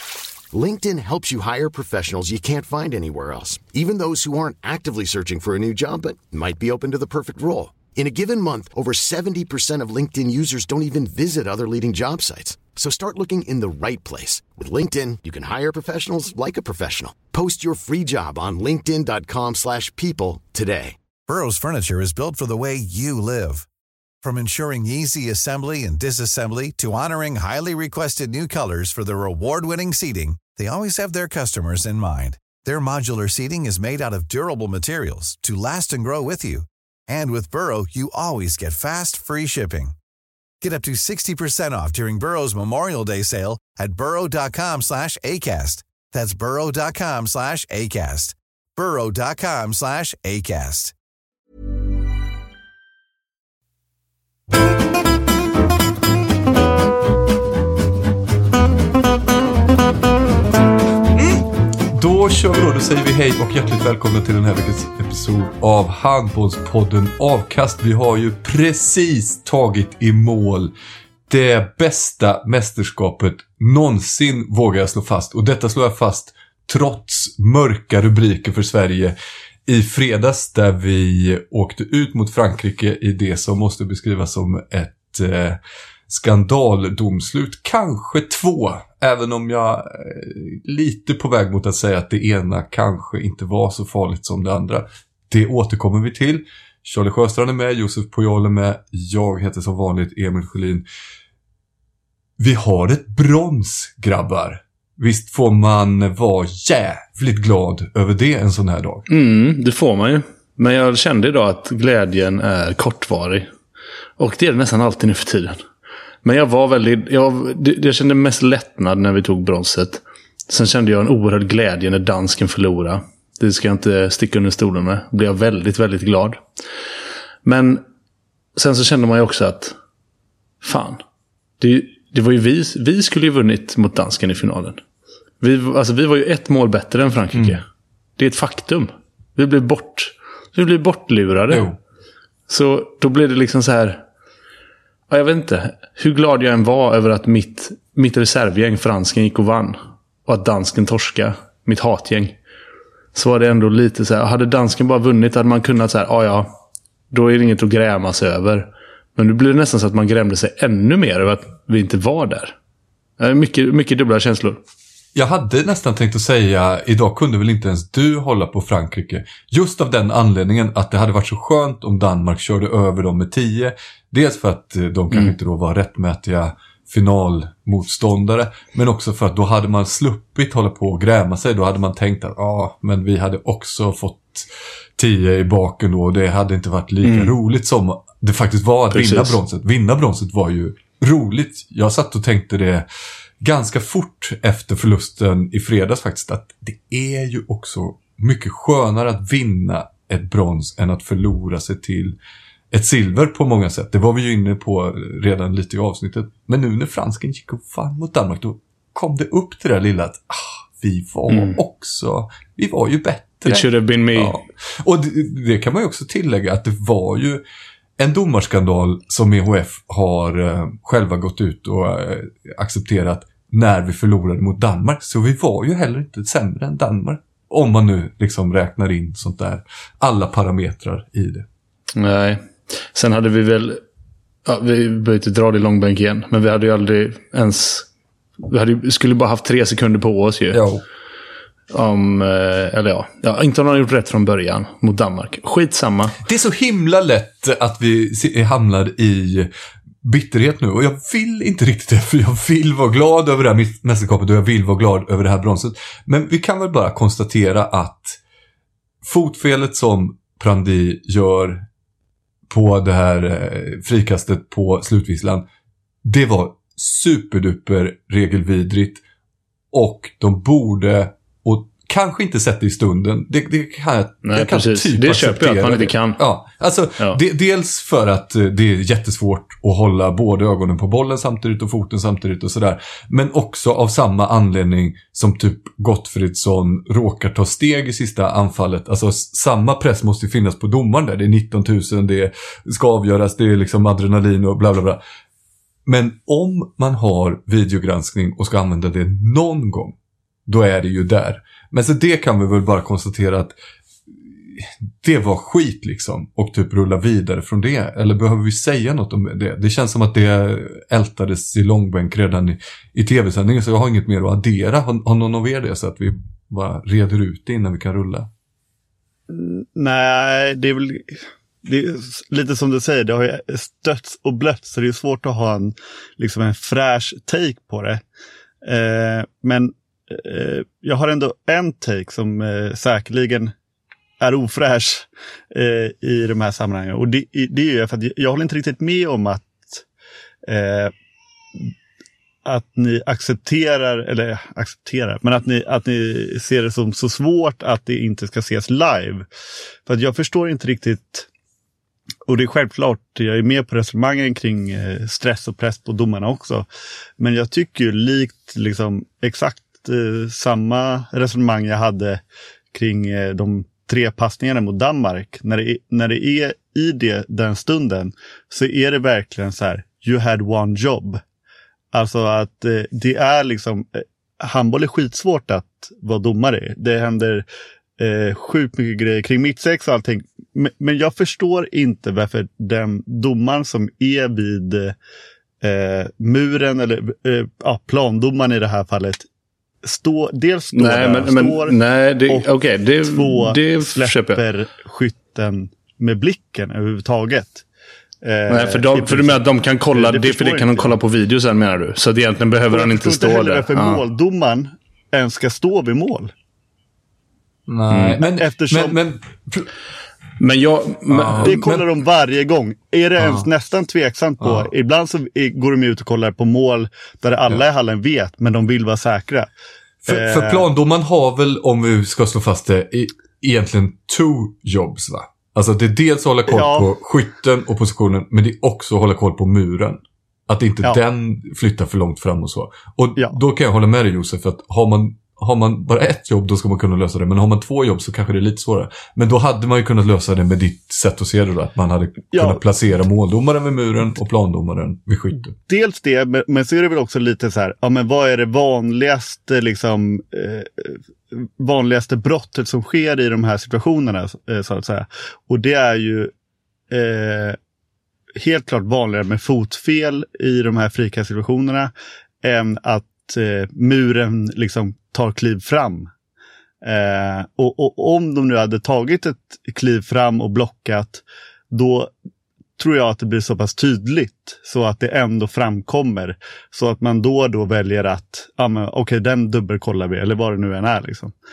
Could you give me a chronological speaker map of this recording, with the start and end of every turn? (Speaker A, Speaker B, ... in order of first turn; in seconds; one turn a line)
Speaker A: 0.5-20.9
Speaker B: 21.3-23.7
Speaker B: 24.2-39.9
Speaker B: 40.6-50.9
Speaker C: 61.1-70.7
Speaker C: 71.3-100.9
Speaker C: 102.4-109.0
Speaker D: 109.1-113.5
Speaker D: 114.2-115.6
Speaker D: 116.2-126.4
Speaker D: 127.4-127.8
Speaker D: 128.6-129.8
Speaker D: 130.6-131.0
Speaker D: 131.6-134.8
Speaker D: 135.4-137.6
Speaker D: 138.2-141.7
Speaker C: 141.5-141.8
Speaker D: 142.5-144.0
Speaker D: 145.1-152.4
Speaker D: 153.1-156.6
Speaker D: 157.1-162.6
Speaker D: 163.2-164.6
Speaker C: 165.1-192.8
Speaker D: 187.0-187.3
Speaker D: 188.9-189.4
Speaker C: 193.4-202.2
Speaker C: 202.7-217.4
Speaker D: 211.3-211.6
Speaker D: 213.4-214.4
Speaker C: 218.0-231.5
Speaker D: 231.9-233.8
Speaker D: 234.4-237.9
Speaker D: 238.4-240.6
Speaker C: 240.5-240.8
Speaker D: 241.7-246.2
Speaker C: 246.2-249.5
Speaker C: 250.0-258.2
Speaker C: 259.0-261.7
Speaker C: 262.5-265.4
Speaker C: 266.0-269.0
Speaker C: 269.7-295.0
Speaker D: 274.2-276.2
Speaker C: 295.8-303.5
Speaker C: 304.2-318.3
Speaker E: 319.3-328.0
Speaker E: 328.6-333.5
Speaker E: 334.2-339.8
Speaker E: 340.5-340.9
Speaker E: 342.4-349.2
Speaker E: 349.9-351.3
Speaker E: 352.3-356.6
Speaker E: 357.2-362.2
Speaker E: 362.7-371.2
Speaker E: 371.9-377.4
Speaker E: 378.0-384.9
Speaker E: 385.6-389.2
Speaker E: 389.8-391.8
Speaker D: 390.7-394.4
Speaker E: 393.1-397.6
Speaker E: 398.2-400.9
Speaker D: 398.5-404.0
Speaker E: 402.7-406.3
Speaker C: 407.7-409.7
Speaker D: 407.9-408.2
Speaker E: 408.2-409.0
Speaker D: 410.4-411.6
Speaker C: 411.1-411.9
Speaker E: 411.4-419.5
Speaker C: 413.2-413.5
Speaker C: 414.4-414.7
Speaker E: 420.1-420.7
Speaker C: 420.1-445.5
Speaker E: 426.5-426.9
Speaker E: 442.3-442.6
Speaker E: 445.7-456.3
Speaker E: 456.9-457.6
Speaker E: 458.4-461.9
Speaker E: 462.4-466.1
Speaker E: 466.8-472.1
Speaker E: 472.8-481.3